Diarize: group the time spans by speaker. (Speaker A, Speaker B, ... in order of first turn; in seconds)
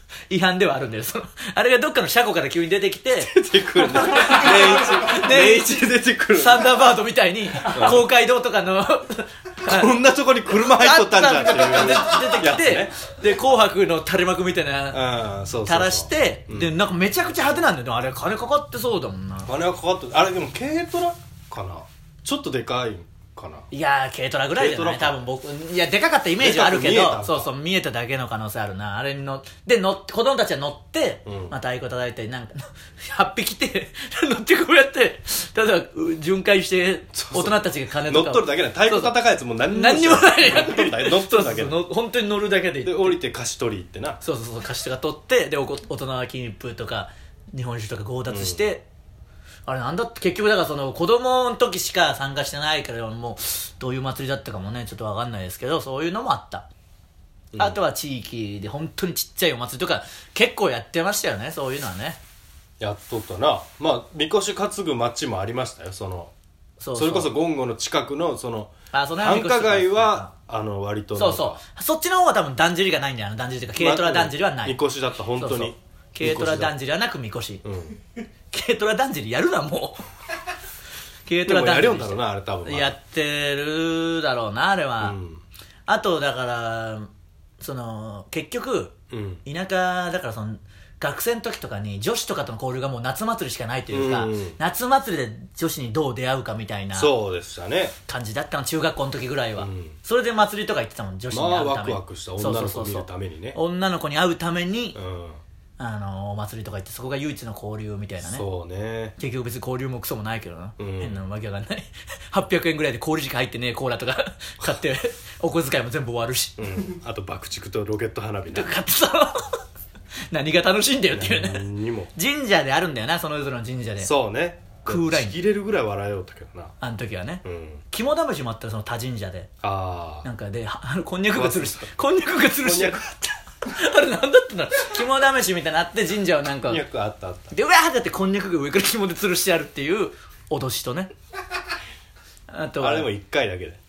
Speaker A: 0.3-9.9, 10.5-15.0, 15.6-19.5, 23.7-43.2, 44.2-48.8, 49.6-56.7, 57.6-62.2, 66.8-67.3, 68.9-70.3, 71.1-74.8, 75.4-77.6, 78.5-80.0, 81.2-85.2, 85.9-87.1, 87.6-97.1, 98.1-105.0, 105.8-108.5, 109.2-116.6, 118.5-119.6, 120.3-124.1, 124.8-125.4, 126.8-129.5, 130.2-136.8, 137.5-141.1, 142.5-143.1
Speaker B: 3.2-6.7, 7.7-8.0, 9.6-12.9, 14.9-16.7, 19.4-23.7, 24.6-25.2, 26.4-27.5, 31.2-31.5, 37.1-41.8, 42.8-44.2, 48.3-48.7, 57.5-57.8, 62.8-66.3, 66.9-71.6, 73.8-76.7, 77.6-78.0, 81.5-83.0, 85.0-85.4, 89.1-89.4, 93.9-94.6, 96.9-98.0, 99.6-100.0, 101.3-103.6, 104.9-105.4, 108.2-109.2, 110.8-111.2, 116.6-118.8, 121.1-122.1, 124.0-126.7, 127.4-127.8, 129.6-130.3, 131.3-131.9, 132.6-133.0, 136.7-137.6, 142.8-143.8